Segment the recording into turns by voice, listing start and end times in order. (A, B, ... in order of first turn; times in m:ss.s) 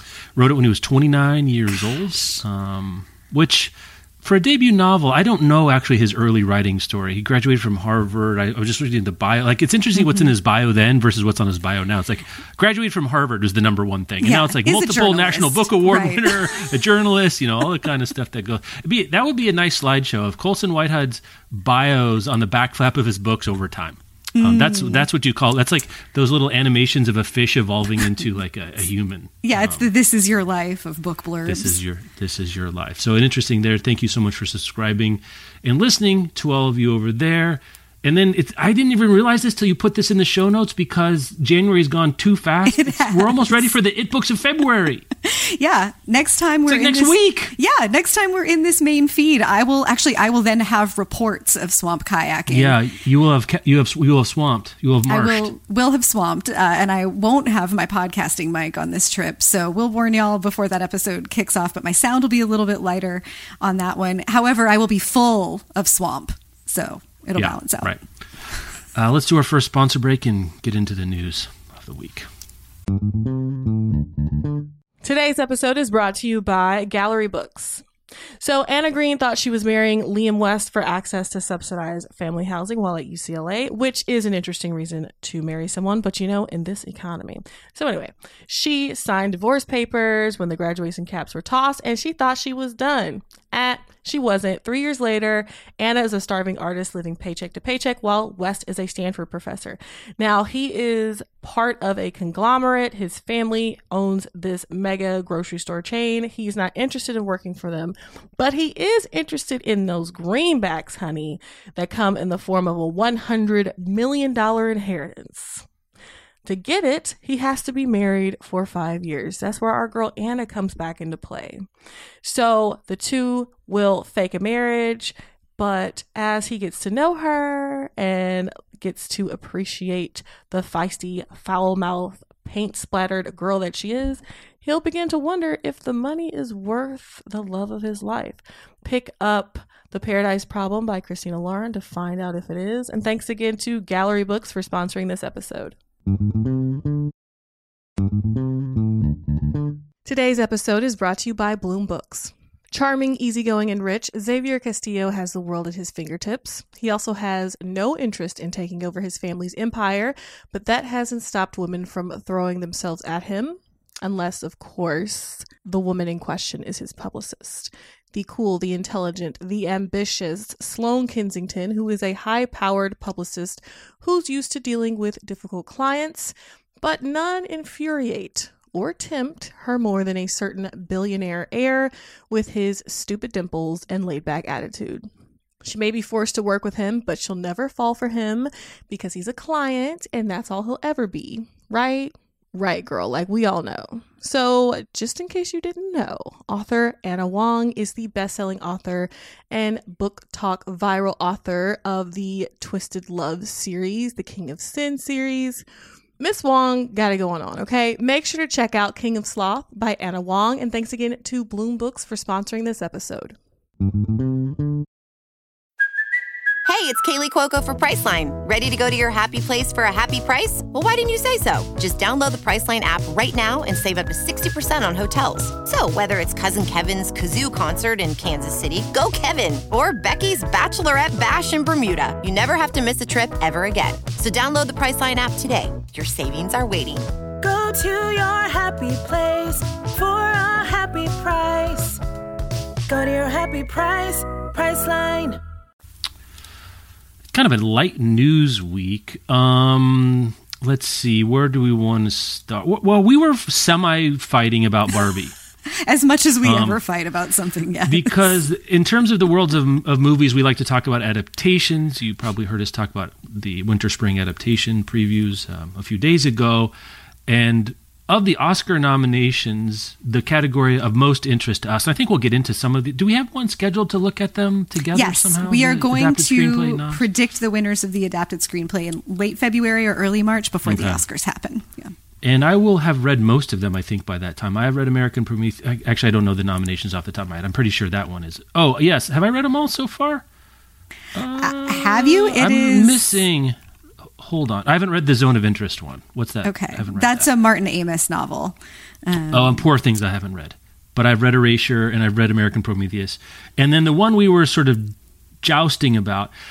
0:00.3-0:29.9 A
0:14.2-0:16.7 B
0:24.3-0:25.1 B
0:29.4-0:31.8 B
0:31.4-0:45.1 A
0:42.7-0:43.7 B
0:45.2-0:52.8 B
0:46.7-0:47.6 A
0:52.5-0:55.5 A
0:55.1-1:08.0 B
1:07.4-1:08.0 A
1:08.9-1:12.3 A
1:15.0-1:17.9 C
1:18.4-1:55.6 C
1:56.4-2:01.7 C
2:02.2-2:25.8 C
2:30.0-3:05.1 C
3:05.6-3:25.6 C
3:26.2-3:33.4 C
3:36.7-3:57.0 D
3:57.4-4:02.0 E
4:02.9-4:05.4 E
4:07.3-4:15.4 A
4:15.9-4:18.4 B
4:16.4-4:16.8 A
4:17.9-4:26.7 A
4:27.3-4:37.0 A
4:34.9-4:41.9 B
4:40.7-4:41.0 A
4:42.2-4:50.2 A
4:51.1-4:53.6 A
4:51.4-4:53.2 B
4:54.2-4:57.3 A
4:56.4-4:59.7 B
4:59.3-5:06.3 A